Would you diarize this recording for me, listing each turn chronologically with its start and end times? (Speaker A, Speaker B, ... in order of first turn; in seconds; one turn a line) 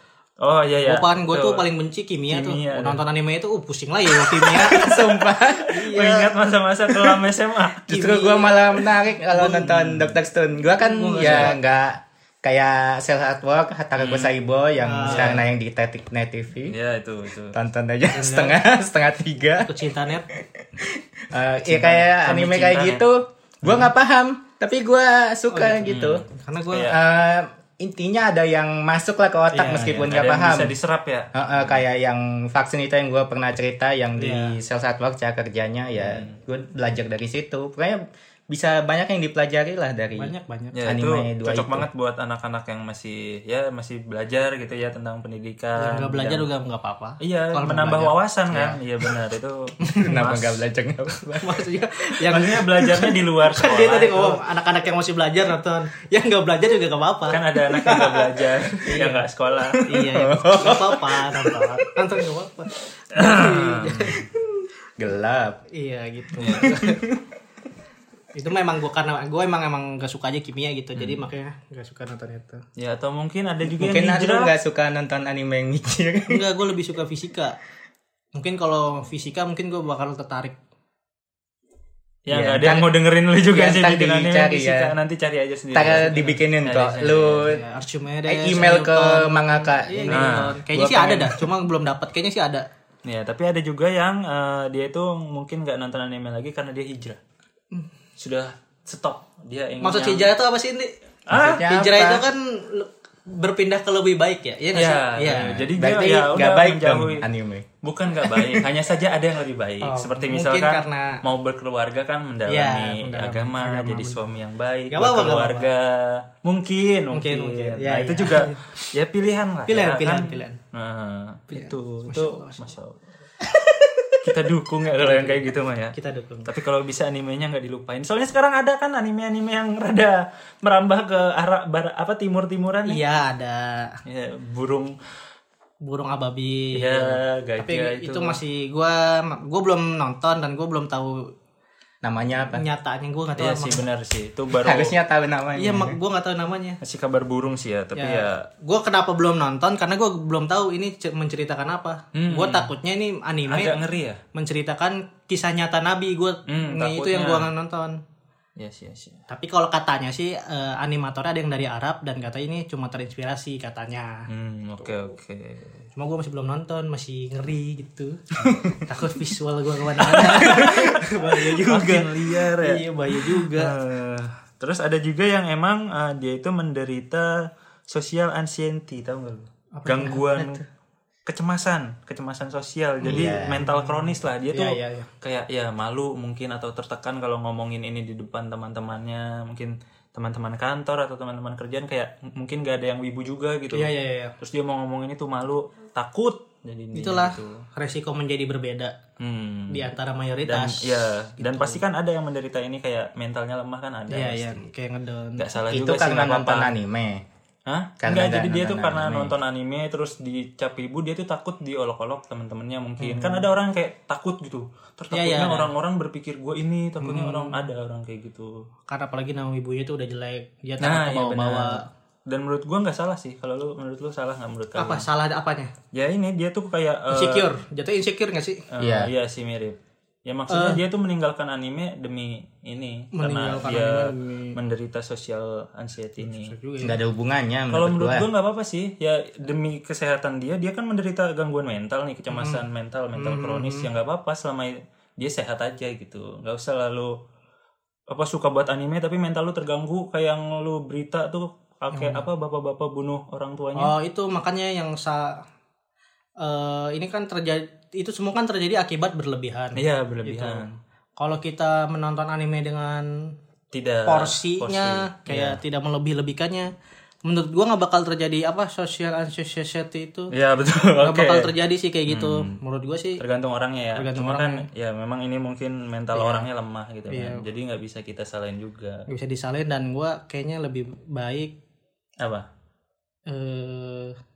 Speaker A: 0.4-1.7
Speaker B: 0.8-4.9
Speaker A: 2.3-3.0
Speaker A: 4.2-8.0
Speaker C: 4.5-5.8
Speaker B: 5.7-6.3
Speaker B: 7.9-8.8
Speaker C: 7.9-16.8
Speaker B: 9.3-9.7
Speaker A: 9.6-10.2
Speaker B: 10.8-11.6
Speaker A: 11.2-11.5
Speaker A: 14.0-14.3
Speaker B: 14.8-15.4
Speaker A: 15.1-15.4
Speaker A: 16.7-17.6
Speaker C: 17.5-19.8
Speaker B: 18.1-18.6
Speaker B: 19.6-20.2
Speaker C: 20.3-26.2
Speaker A: 21.7-23.1
Speaker B: 25.5-26.9
Speaker A: 25.9-27.0
Speaker C: 26.8-30.8
Speaker B: 29.5-30.0
Speaker A: 29.7-31.5
Speaker C: 31.3-40.3
Speaker B: 34.2-34.6
Speaker A: 36.0-36.4
Speaker B: 40.1-40.8
Speaker A: 40.7-46.5
Speaker C: 40.8-41.9
Speaker B: 45.8-48.1
Speaker A: 47.2-50.6
Speaker C: 48.5-48.8
Speaker B: 49.8-50.2
Speaker C: 50.0-51.6
Speaker B: 51.4-59.3
Speaker A: 52.3-54.4
Speaker A: 57.3-59.9
Speaker B: 59.9-64.4
Speaker C: 59.9-61.9
Speaker A: 63.1-64.3
Speaker C: 65.0-65.6
Speaker B: 65.7-67.0
Speaker A: 66.4-66.8
Speaker C: 66.6-67.2
Speaker B: 68.3-72.6
Speaker A: 71.0-71.2
Speaker A: 72.8-74.5
Speaker C: 73.6-76.4
Speaker B: 76.3-77.6
Speaker B: 78.3-80.5
Speaker A: 82.2-87.5
Speaker C: 82.3-84.9
Speaker C: 85.7-87.6
Speaker B: 87.4-92.7
Speaker C: 88.2-91.5
Speaker A: 90.1-90.6
Speaker A: 93.0-97.2
Speaker A: 98.2-100.3
Speaker B: 99.8-105.5
Speaker A: 101.3-101.6
Speaker C: 101.3-102.2
Speaker A: 104.7-107.2
Speaker C: 105.4-107.7
Speaker A: 107.8-123.0
Speaker C: 108.3-108.5
Speaker B: 109.8-111.2
Speaker B: 112.5-114.2
Speaker B: 114.9-115.7
Speaker B: 117.1-118.8
Speaker B: 119.7-120.6
Speaker B: 121.5-122.7
Speaker B: 123.4-124.2
Speaker A: 124.2-133.0
Speaker B: 125.0-126.5
Speaker B: 132.9-134.0
Speaker A: 134.1-134.9
Speaker B: 135.8-141.3
Speaker A: 136.7-138.4
Speaker C: 142.0-142.6
Speaker B: 142.5-143.8
Speaker A: 143.4-144.9
Speaker C: 144.5-146.0
Speaker B: 145.6-146.8
Speaker A: 146.8-148.4
Speaker B: 147.9-153.8
Speaker A: 152.1-152.7
Speaker A: 153.4-154.2
Speaker B: 154.3-158.0
Speaker A: 156.5-157.5
Speaker A: 158.6-159.2
Speaker B: 159.3-164.3
Speaker A: 164.3-165.8
Speaker B: 165.9-173.7
Speaker A: 170.0-177.3
Speaker A: 177.9-180.6
Speaker B: 179.7-180.6
Speaker A: 181.3-197.6
Speaker B: 183.0-185.1
Speaker C: 183.1-183.6
Speaker B: 193.7-194.3
Speaker B: 196.9-199.0
Speaker A: 199.2-199.9
Speaker B: 199.7-201.8
Speaker A: 200.4-204.6
Speaker B: 204.1-205.4
Speaker A: 205.4-206.7
Speaker C: 205.7-207.2
Speaker A: 207.7-218.6
Speaker C: 208.0-209.3
Speaker B: 213.0-213.5
Speaker B: 215.1-215.7
Speaker B: 217.0-217.6
Speaker B: 218.9-221.8
Speaker A: 220.8-225.1
Speaker B: 224.8-225.7
Speaker A: 225.9-227.5
Speaker B: 227.1-228.6
Speaker A: 228.7-236.5
Speaker C: 228.8-229.1
Speaker B: 230.5-230.8
Speaker B: 233.1-234.6
Speaker B: 236.2-237.0
Speaker C: 236.8-238.2
Speaker A: 237.7-247.2
Speaker B: 242.3-242.6
Speaker B: 243.2-243.9
Speaker A: 248.1-253.9
Speaker B: 251.9-252.2
Speaker B: 253.8-255.4
Speaker B: 256.4-260.6
Speaker A: 259.8-260.7
Speaker B: 261.2-263.3
Speaker A: 263.7-265.6
Speaker B: 264.1-266.7
Speaker B: 267.2-270.3
Speaker A: 270.3-271.5
Speaker B: 271.0-273.2
Speaker A: 272.1-272.6
Speaker A: 273.2-279.0
Speaker B: 273.9-274.6
Speaker B: 276.1-276.4
Speaker B: 277.1-277.4
Speaker B: 279.1-281.5
Speaker A: 282.2-282.4
Speaker B: 283.3-284.1